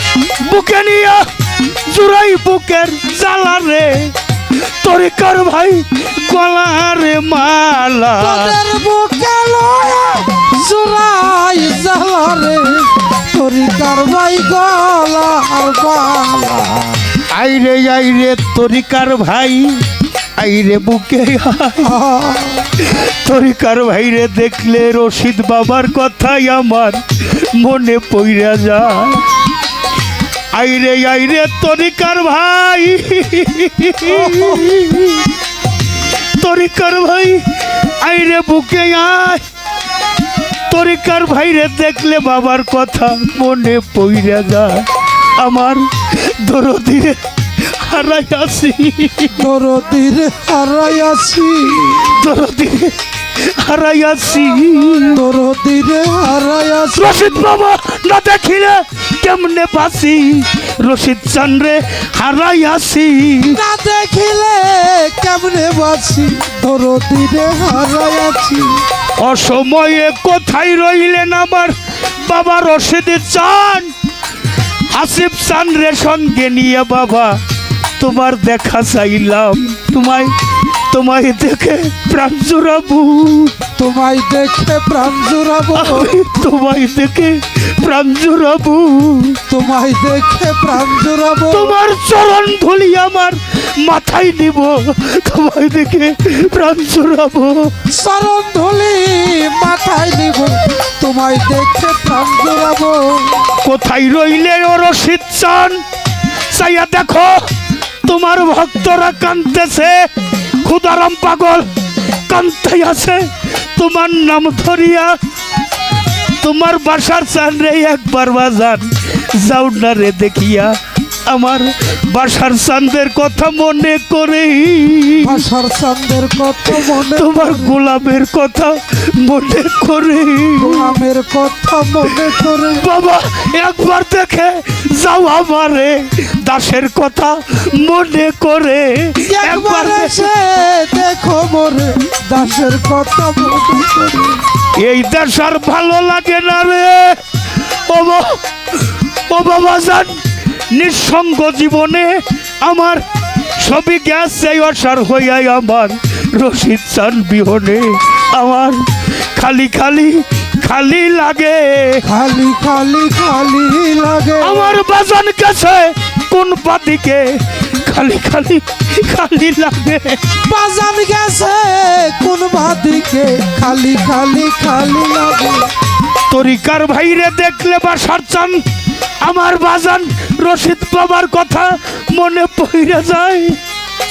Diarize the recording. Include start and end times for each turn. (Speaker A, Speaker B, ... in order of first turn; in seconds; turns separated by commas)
Speaker A: 0.4-8.5, Speaker B: 8.2-17.1, Speaker A: 17.3-19.8, Speaker A: 20.4-21.9, Speaker B: 21.8-22.7, Speaker A: 22.8-29.2, Speaker A: 30.5-35.3, Speaker B: 34.0-34.7, Speaker A: 36.4-39.4, Speaker A: 40.7-49.4, Speaker B: 49.4-52.0, Speaker A: 51.9-55.2, Speaker B: 55.1-57.3, Speaker A: 56.9-63.6, Speaker B: 63.5-68.8, Speaker A: 69.2-73.9, Speaker A: 74.9-77.4, Speaker A: 78.0-80.3, Speaker A: 80.9-83.5, Speaker B: 83.8-86.1, Speaker A: 85.7-89.4, Speaker B: 89.5-91.8, Speaker A: 91.5-97.7, Speaker B: 97.9-103.5, Speaker A: 103.6-105.8, Speaker A: 106.5-107.5, Speaker A: 108.0-111.7, Speaker A: 112.3-115.2, Speaker A: 116.4-120.8, Speaker A: 121.3-125.4, Speaker B: 125.2-127.7, Speaker A: 126.7-131.0, Speaker B: 130.6-132.9, Speaker A: 132.8-140.3, Speaker B: 139.2-144.4, Speaker A: 144.7-153.0, Speaker A: 153.6-162.0, Speaker B: 162.0-164.8, Speaker A: 164.4-170.2, Speaker B: 170.4-175.7, Speaker A: 176.3-178.6, Speaker A: 179.2-183.6